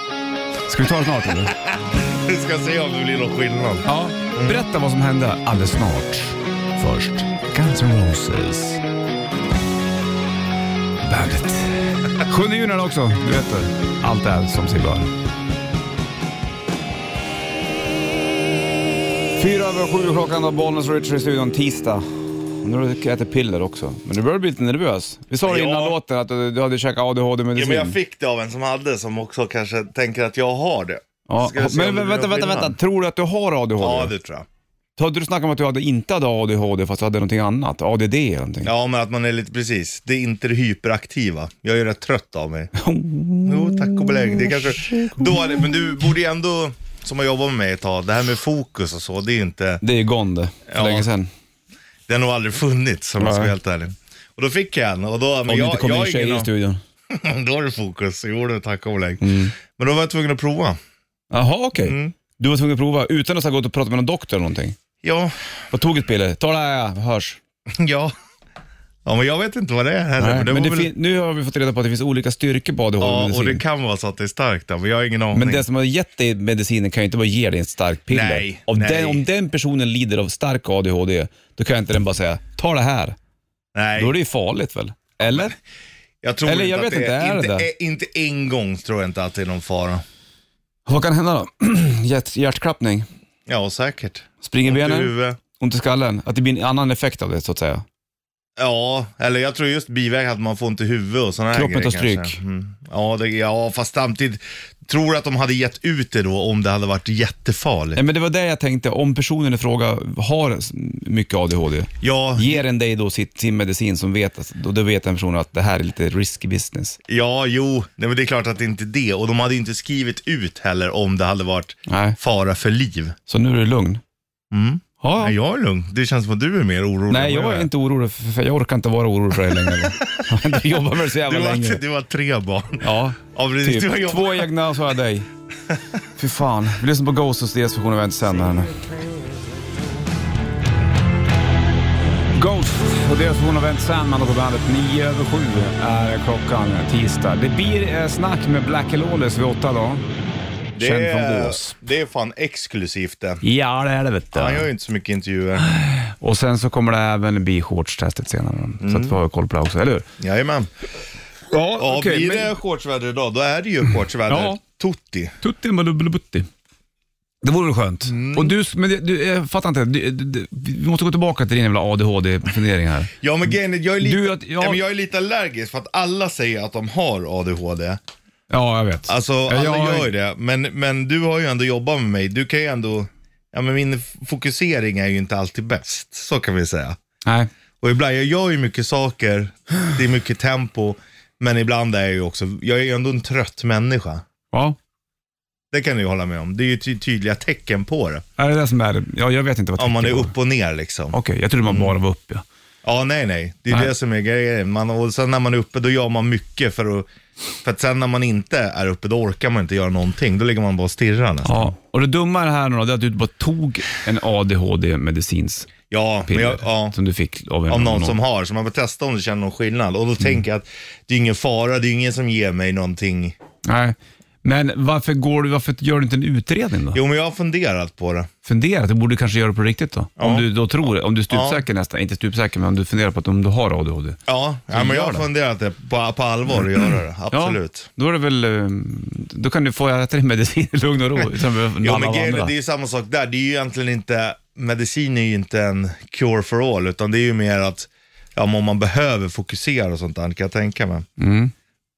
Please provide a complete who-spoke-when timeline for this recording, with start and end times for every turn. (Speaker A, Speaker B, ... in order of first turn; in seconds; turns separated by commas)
Speaker A: 0.7-1.5, Speaker B: 1.4-4.6, Speaker A: 3.8-8.8, Speaker A: 11.0-15.1, Speaker A: 19.4-28.0, Speaker B: 25.4-26.0, Speaker B: 27.5-32.8, Speaker A: 31.3-34.1, Speaker B: 33.8-34.5, Speaker A: 35.0-38.7, Speaker B: 38.6-42.7, Speaker A: 42.8-45.6, Speaker B: 43.4-49.8, Speaker A: 49.8-51.3, Speaker B: 50.7-51.1, Speaker B: 52.1-56.5, Speaker A: 53.2-53.5, Speaker A: 55.5-56.8, Speaker B: 57.1-60.8, Speaker A: 59.2-59.5, Speaker A: 61.3-64.8, Speaker B: 61.8-62.1, Speaker B: 65.0-65.3, Speaker A: 65.7-67.4, Speaker B: 67.7-68.1, Speaker B: 69.0-70.9, Speaker A: 70.2-73.6, Speaker B: 73.0-75.6, Speaker A: 75.3-83.2, Speaker B: 78.1-79.2, Speaker B: 83.7-84.1, Speaker A: 84.0-85.5, Speaker B: 85.2-85.5, Speaker B: 86.2-90.0, Speaker A: 86.4-87.7, Speaker A: 90.9-93.1, Speaker B: 93.5-95.4, Speaker A: 94.4-97.8, Speaker B: 98.6-108.0, Speaker A: 101.5-102.4, Speaker A: 107.9-117.0, Speaker B: 112.0-112.6, Speaker B: 117.1-123.2, Speaker A: 121.9-122.2, Speaker A: 123.3-124.0, Speaker B: 124.5-127.7, Speaker A: 125.0-125.3, Speaker A: 127.1-131.8, Speaker B: 129.4-134.5, Speaker A: 132.8-135.3, Speaker A: 136.2-138.8, Speaker A: 142.3-150.0, Speaker B: 150.7-153.4, Speaker A: 150.8-151.8, Speaker A: 153.4-154.7, Speaker B: 154.3-155.7, Speaker A: 155.6-160.1, Speaker B: 158.8-159.2, Speaker B: 160.2-160.7, Speaker A: 161.5-162.6, Speaker B: 161.8-165.3, Speaker A: 164.3-164.6, Speaker A: 165.4-166.5, Speaker A: 167.4-173.1, Speaker B: 168.1-168.5, Speaker B: 173.2-178.0, Speaker A: 174.0-174.8, Speaker A: 178.5-180.1, Speaker B: 179.1-186.9, Speaker B: 187.8-194.2, Speaker B: 195.7-198.2, Speaker A: 198.4-200.3, Speaker B: 199.8-201.9, Speaker A: 201.1-202.4, Speaker B: 202.8-207.1, Speaker B: 207.6-211.7, Speaker A: 211.4-215.7, Speaker B: 215.9-216.9, Speaker A: 216.3-218.2, Speaker B: 217.7-223.3, Speaker A: 223.6-227.0, Speaker B: 226.9-228.3, Speaker A: 228.4-235.3, Speaker B: 230.2-230.5, Speaker B: 231.3-231.6, Speaker B: 234.3-237.9, Speaker A: 237.3-242.5, Speaker B: 241.8-251.1, Speaker A: 251.2-251.5